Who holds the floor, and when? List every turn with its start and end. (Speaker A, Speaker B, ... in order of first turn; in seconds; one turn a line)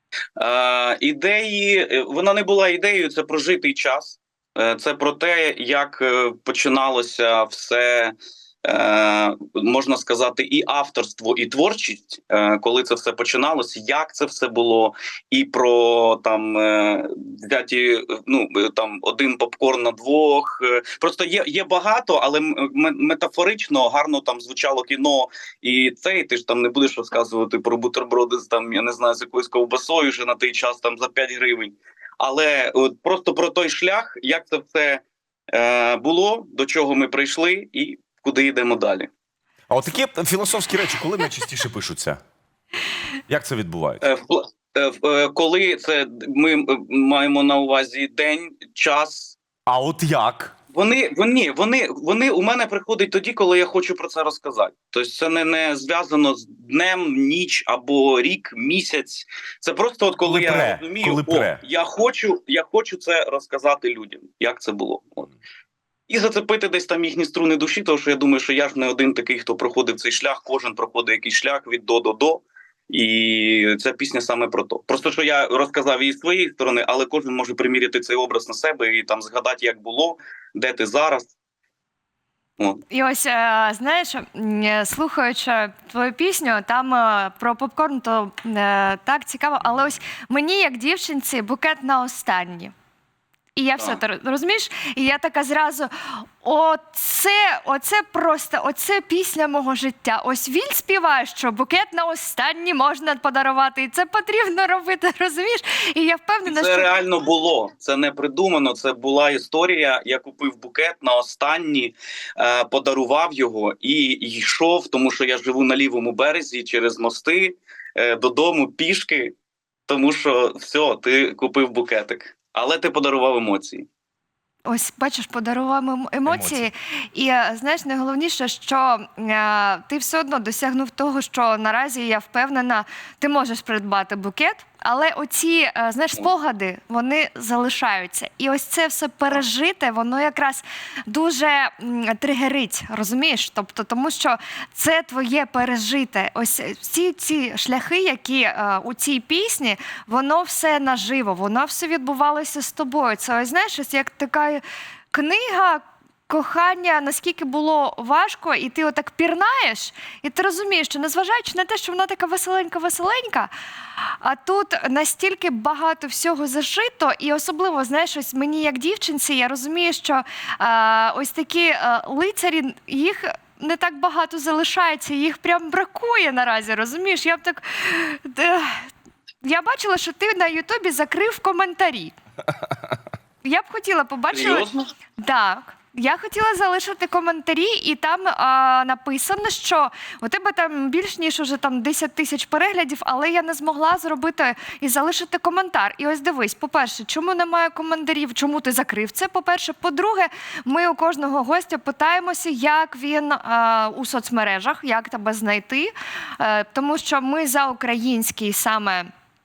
Speaker A: 0.4-39.1
Speaker B: 39.7-42.2
Speaker B: 43.3-44.0
Speaker A: 44.0-49.4
Speaker B: 49.7-50.5
Speaker A: 50.7-65.3
Speaker B: 60.2-61.6
Speaker A: 66.1-81.3
Speaker C: 82.9-92.7
Speaker C: 93.6-106.9
Speaker A: 106.5-119.3
Speaker A: 119.9-123.9
Speaker C: 124.7-163.5
Speaker B: 126.3-126.7
Speaker C: 164.2-178.8
Speaker C: 179.4-182.1
Speaker C: 183.4-184.7
Speaker A: 184.3-184.9
Speaker C: 185.2-209.1